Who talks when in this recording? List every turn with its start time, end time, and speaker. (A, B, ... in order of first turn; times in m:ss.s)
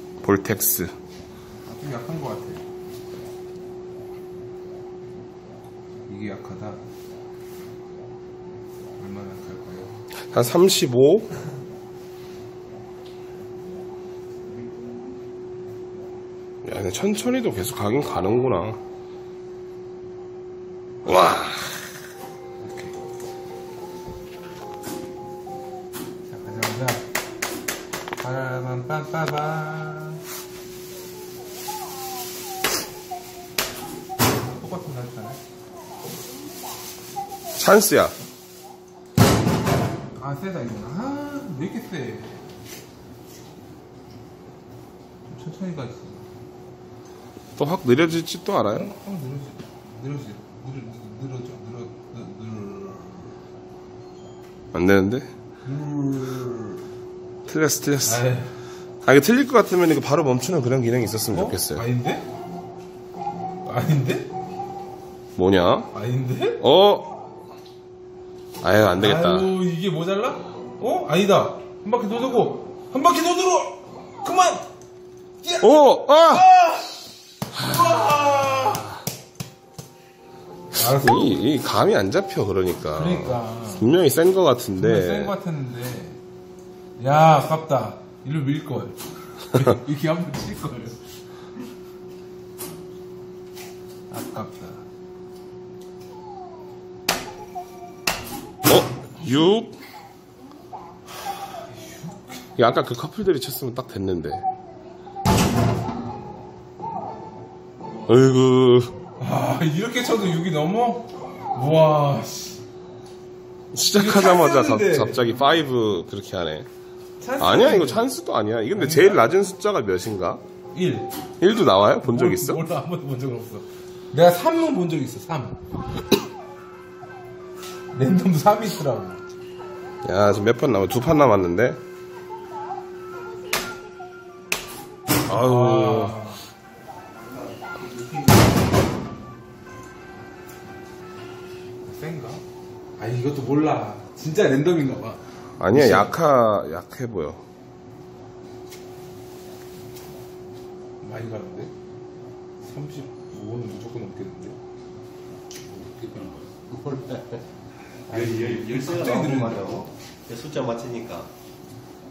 0:00.2-0:00.9 A
0:01.7-0:02.6 B
0:06.1-0:06.8 B
0:09.0-0:10.0 B
0:10.3-0:11.3 A
0:16.6-0:18.8 A
0:21.0-0:21.9 A
0:22.6-0:23.0 B
0:26.2-0:27.1 B
0:28.2-0:30.2 B
0:34.4-0:35.4 B
0:37.6-0:38.2 A
0:40.2-0:42.5 B
0:45.3-0:46.3 B
0:47.6-0:48.9 A
0:48.7-0:53.4 B
0:54.7-0:55.3 A
0:55.7-0:56.8 B
0:57.5-0:58.2 A
0:58.0-0:58.6 B
0:59.0-1:01.8 A
1:01.3-1:02.3 B
1:03.6-1:04.3 B
1:05.4-1:05.9 A
1:05.9-1:06.6 B
1:06.6-1:07.2 A
1:08.6-1:09.5 A
1:09.0-1:14.7 B
1:15.4-1:19.0 B
1:15.6-1:16.5 A
1:17.7-1:17.9 A
1:20.7-1:21.4 B
1:20.9-1:25.3 A
1:22.9-1:23.9 B
1:24.8-1:26.2 B
1:27.0-1:31.0 B
1:34.1-1:34.9 B
1:38.6-1:39.8 A
1:41.7-1:42.5 B
1:42.6-1:44.5 A
1:48.1-1:48.9 A
1:49.2-1:52.6 B
1:53.7-1:56.7 A
1:53.9-1:55.6 B
1:57.2-1:58.1 B
1:57.4-2:00.4 A
1:58.7-1:59.3 B
2:00.7-2:01.1 B
2:01.4-2:02.6 A
2:02.0-2:05.7 B
2:07.9-2:09.2 B
2:10.0-2:11.8 A
2:15.3-2:16.2 A
2:15.3-2:16.4 B
2:17.5-2:18.4 C
2:21.8-2:22.4 B
2:23.0-2:26.2 B
2:25.6-2:27.4 A
2:31.0-2:31.7 B
2:32.6-2:34.6 B
2:35.7-2:37.4 C
2:38.1-2:41.3 C
2:38.1-2:39.9 B